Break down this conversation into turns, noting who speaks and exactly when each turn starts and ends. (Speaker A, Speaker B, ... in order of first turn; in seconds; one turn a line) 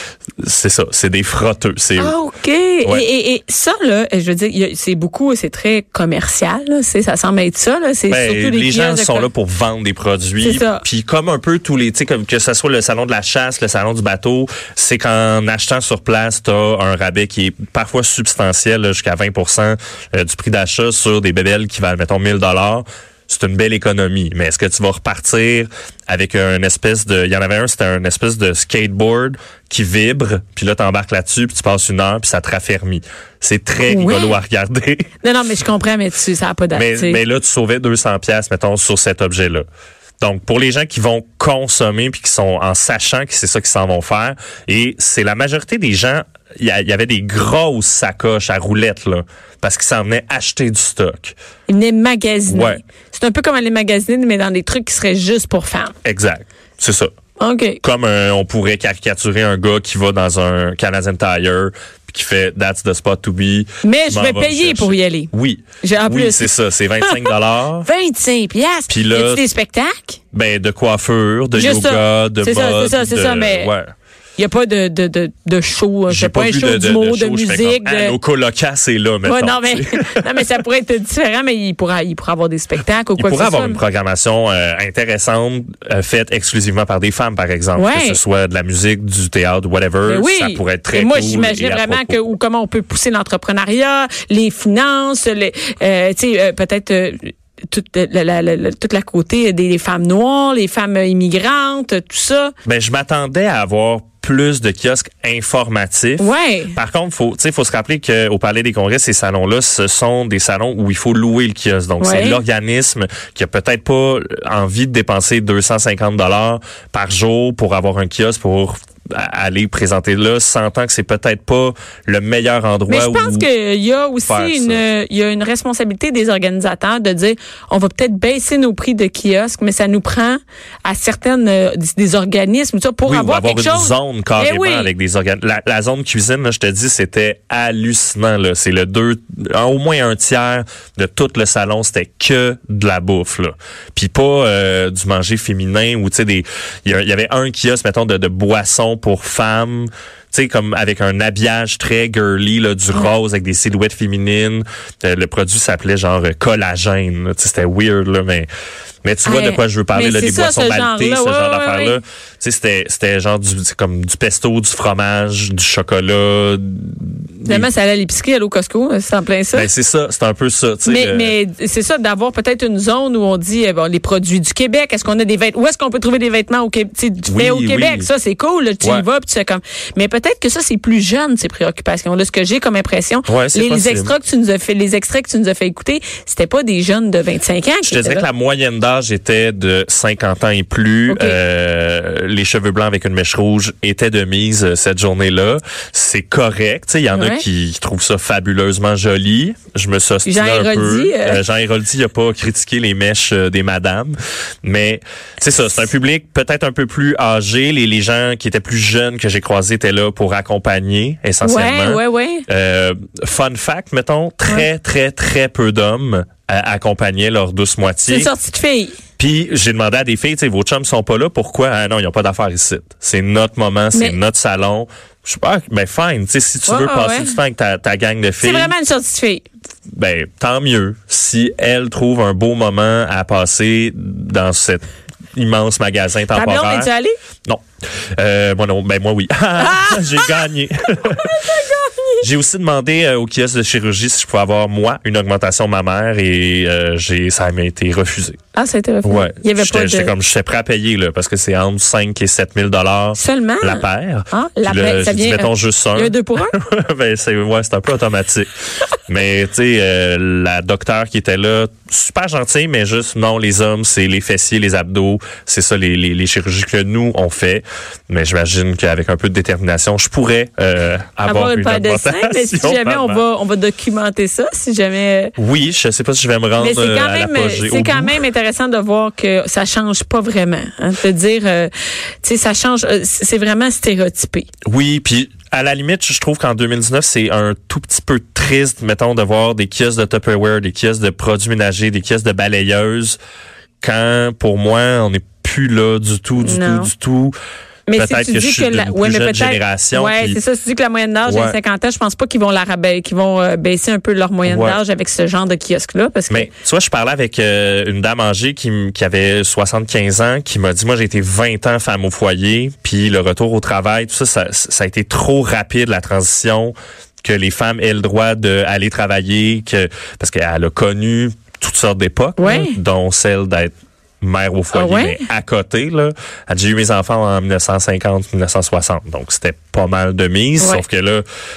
Speaker A: 0.4-2.2
Speaker B: 2.0-9.3
Speaker A: 8.1-35.1
Speaker B: 10.4-10.8
Speaker B: 33.9-34.4
Speaker B: 35.2-37.2
Speaker A: 36.7-39.7
Speaker A: 40.2-51.4
Speaker B: 51.7-56.0
Speaker A: 52.5-52.8
Speaker A: 56.0-57.1
Speaker B: 57.4-57.8
Speaker A: 57.8-67.9
Speaker B: 63.8-65.3
Speaker B: 65.8-67.3
Speaker B: 67.8-70.2
Speaker A: 68.9-69.5
Speaker A: 70.3-73.9
Speaker B: 71.5-73.7
Speaker B: 74.4-78.2
Speaker A: 76.1-80.3
Speaker B: 79.2-83.8
Speaker A: 83.2-92.3
Speaker B: 87.8-88.2
Speaker B: 90.0-102.5
Speaker A: 102.7-123.5
Speaker B: 106.2-106.8
Speaker B: 112.0-112.4
Speaker B: 122.9-134.9
Speaker A: 124.3-124.8
Speaker A: 133.1-158.5
Speaker A: 159.0-167.7
Speaker B: 159.2-162.0
Speaker B: 167.5-169.7
Speaker A: 169.5-171.4
Speaker B: 170.8-188.3
Speaker A: 177.3-178.1
Speaker A: 183.3-184.2
Speaker A: 187.8-218.3
Speaker B: 191.1-191.4
Speaker B: 197.1-197.4
Speaker B: 200.2-201.4
Speaker B: 211.4-212.5
Speaker B: 218.1-219.0
Speaker A: 219.2-228.7
Speaker B: 223.9-224.2
Speaker B: 226.7-227.4
Speaker B: 228.4-229.5
Speaker A: 229.9-236.9
Speaker B: 236.3-237.2
Speaker A: 238.2-241.4
Speaker B: 239.6-240.3
Speaker B: 241.2-242.3
Speaker A: 242.2-248.4
Speaker B: 248.6-250.1
Speaker A: 249.0-258.5
Speaker B: 253.2-256.6
Speaker A: 259.1-273.2
Speaker B: 271.2-275.3
Speaker A: 275.4-278.2
Speaker B: 276.6-281.7
Speaker B: 282.2-284.5
Speaker A: 284.7-293.2
Speaker A: 293.8-297.4
Speaker B: 296.4-296.9
Speaker B: 297.9-306.5
Speaker A: 297.9-300.4
Speaker A: 301.3-301.6
Speaker A: 304.4-304.8
Speaker A: 306.3-331.2
Speaker B: 322.4-322.8
Speaker B: 324.7-325.2
Speaker B: 330.6-330.8